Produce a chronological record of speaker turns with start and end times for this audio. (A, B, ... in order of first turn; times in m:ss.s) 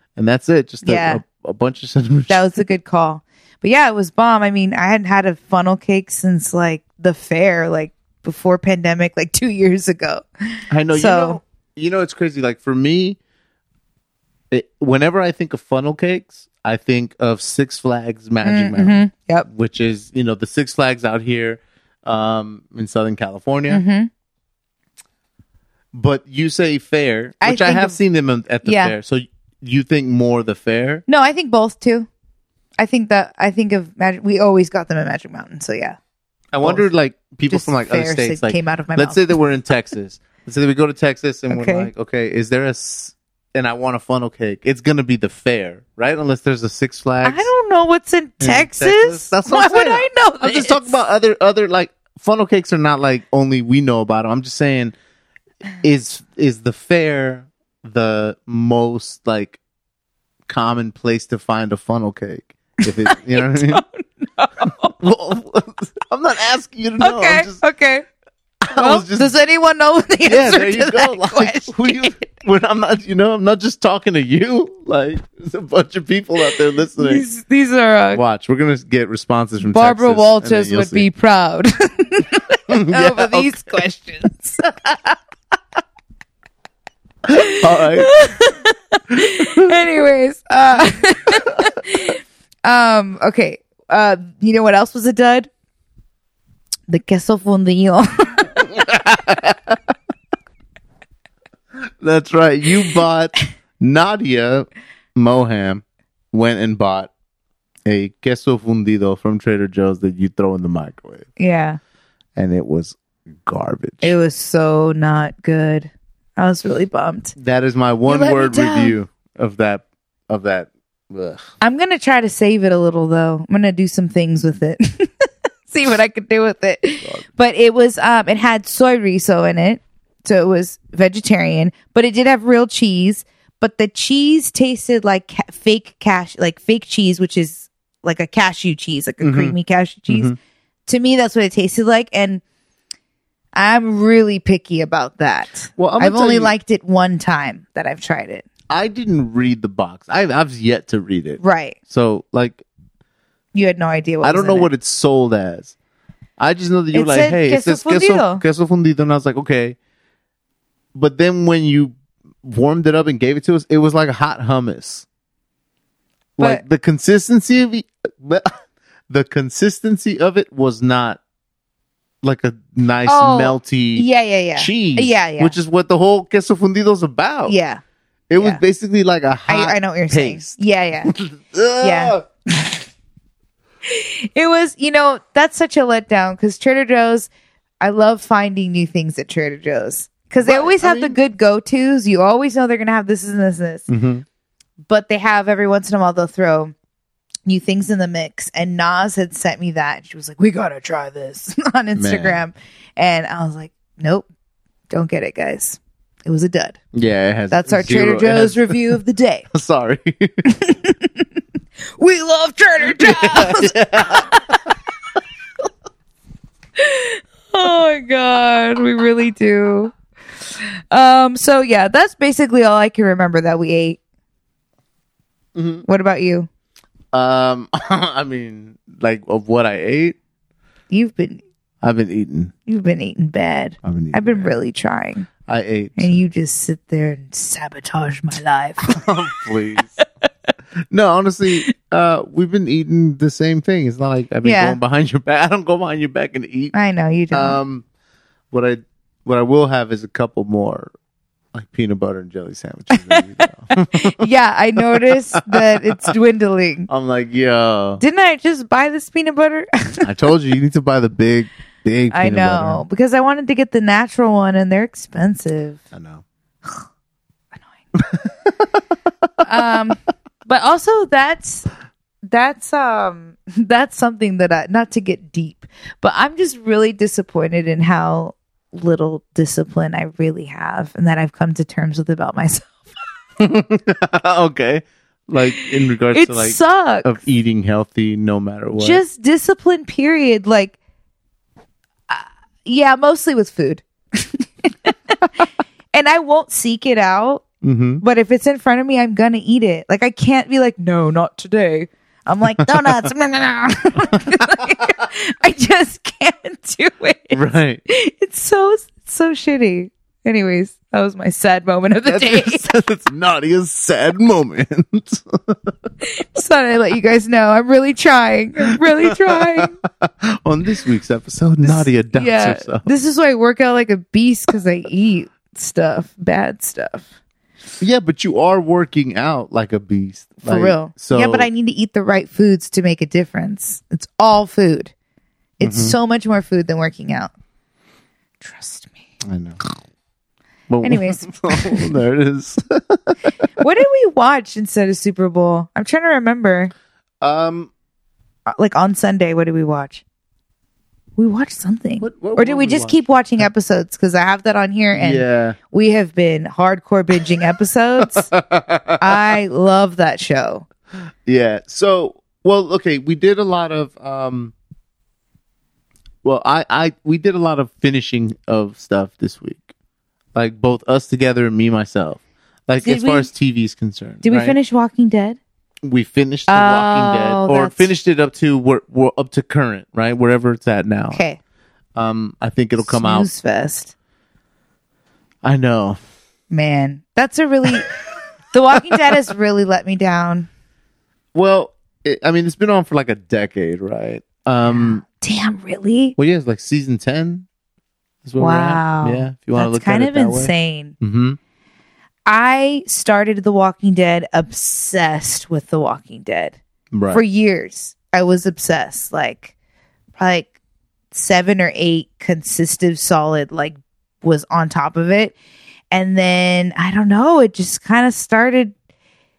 0:00.2-0:02.5 A
0:00.8-0:01.2 B
0:02.3-0:11.4 B
0:10.7-0:13.2 A
0:14.5-0:23.8 A
0:18.4-0:19.5 B
0:23.7-0:24.1 B
0:25.9-0:31.0 A
0:27.4-0:28.0 B
0:28.6-0:28.9 B
0:31.1-0:32.1 B
0:32.8-0:36.0 B
0:36.5-0:47.5 A
0:36.6-0:36.9 B
0:37.5-0:39.4 B
0:41.5-0:41.9 B
0:47.2-0:51.0 B
0:48.4-0:55.0 A
0:55.8-0:59.6 A
1:00.5-1:03.8 A
1:02.8-1:04.9 B
1:04.7-1:07.6 A
1:07.0-1:08.1 B
1:08.6-1:09.3 A
1:08.7-1:12.2 B
1:10.3-1:17.2 A
1:17.0-1:18.2 B
1:18.1-1:21.1 A
1:19.6-1:24.6 B
1:22.7-1:23.7 A
1:27.3-1:28.1 A
1:27.3-1:35.5 B
1:29.1-1:29.7 A
1:36.9-1:38.6 B
1:38.6-1:39.8 A
1:41.8-1:47.1 A
1:47.9-1:51.3 A
1:51.4-1:51.8 B
1:52.4-1:54.2 A
1:54.0-1:57.4 B
1:57.4-2:01.4 A
1:58.1-1:59.0 B
2:01.6-2:20.4 B
2:19.2-2:19.6 A
2:20.1-2:20.4 A
2:20.9-2:22.4 B
2:23.6-2:28.5 B
2:25.8-2:26.5 A
2:28.7-2:32.6 A
2:31.4-2:31.8 B
2:33.5-2:34.7 B
2:34.2-2:35.8 A
2:36.4-2:39.8 A
2:36.9-2:38.4 B
2:41.0-2:45.1 A
2:46.4-2:48.6 A
2:49.1-2:51.2 A
2:52.2-2:57.6 A
2:53.1-2:55.6 B
2:57.5-2:57.8 B
2:58.3-3:02.2 A
2:58.4-2:58.6 B
2:59.5-3:01.1 B
3:01.8-3:02.8 B
3:03.8-3:07.3 B
3:07.8-3:13.9 B
3:10.4-3:11.2 A
3:13.9-3:14.2 A
3:14.9-3:16.7 B
3:17.5-3:24.3 B
3:22.0-3:22.4 A
3:24.9-3:26.8 B
3:26.9-3:29.0 A
3:27.5-3:29.5 B
3:29.5-3:30.4 A
3:30.5-3:31.2 B
3:32.0-3:34.7 B
3:32.9-3:34.5 A
3:36.8-3:39.9 B
3:40.9-3:44.0 B
3:45.6-3:45.8 A
3:45.8-3:46.5 B
3:47.1-3:50.2 A
3:50.9-3:51.4 B
3:51.8-3:52.5 A
3:52.7-3:55.3 B
3:53.8-3:54.5 A
3:55.5-3:56.2 A
3:56.0-3:59.0 B
3:58.9-4:00.0 A
4:00.9-4:06.7 A
4:04.4-4:04.8 B
4:06.7-4:07.6 B
4:07.3-4:07.8 A
4:08.5-4:10.9 A
4:11.5-4:14.2 A
4:12.9-4:16.9 B
4:14.8-4:16.0 A
4:16.9-4:18.0 A
4:18.0-4:20.1 B
4:20.0-4:22.8 A
4:22.1-4:25.8 B
4:25.9-4:26.2 A
4:28.0-4:28.3 A
4:29.4-4:31.7 B
4:32.3-4:42.9 B
4:43.4-4:49.0 A
4:45.4-4:47.2 B
4:48.8-4:50.8 B
4:52.1-4:55.3 B
4:55.9-4:57.4 B
4:57.6-4:58.0 A
4:58.0-5:12.8 B
5:07.3-5:07.8 A
5:12.1-5:15.7 A
5:16.0-5:19.8 B
5:18.8-5:22.9 A
5:21.6-5:27.1 B
5:27.8-5:31.5 A
5:30.4-5:34.9 B
5:35.6-5:37.3 B
5:35.6-5:36.0 A
5:38.4-5:39.0 B
5:39.2-5:39.6 A
5:40.7-5:43.3 A
5:40.8-5:41.9 B
5:43.6-5:46.7 B
5:47.2-5:47.7 A
5:48.6-5:50.0 B
5:51.2-5:58.3 B
5:52.0-5:53.5 A
5:54.9-5:55.6 A
5:58.3-5:59.2 A
5:59.0-6:00.7 B
6:01.3-6:04.5 A
6:06.2-6:09.7 A
6:10.4-6:14.6 A
6:12.8-6:13.3 B
6:14.2-6:15.4 B
6:15.8-6:21.2 A
6:16.5-6:17.9 B
6:21.1-6:21.4 B
6:22.0-6:23.3 A
6:22.8-6:23.9 B
6:25.4-6:26.0 A
6:26.5-6:27.9 B
6:28.5-6:30.5 B
6:31.3-6:35.0 A
6:34.6-6:36.2 B
6:36.2-6:37.5 A
6:38.2-6:41.4 A
6:38.4-6:41.0 B
6:42.3-6:46.6 B
6:46.9-6:47.2 A
6:47.1-6:49.5 B
6:50.2-6:50.5 B
6:51.1-6:55.4 B
6:55.9-6:58.7 B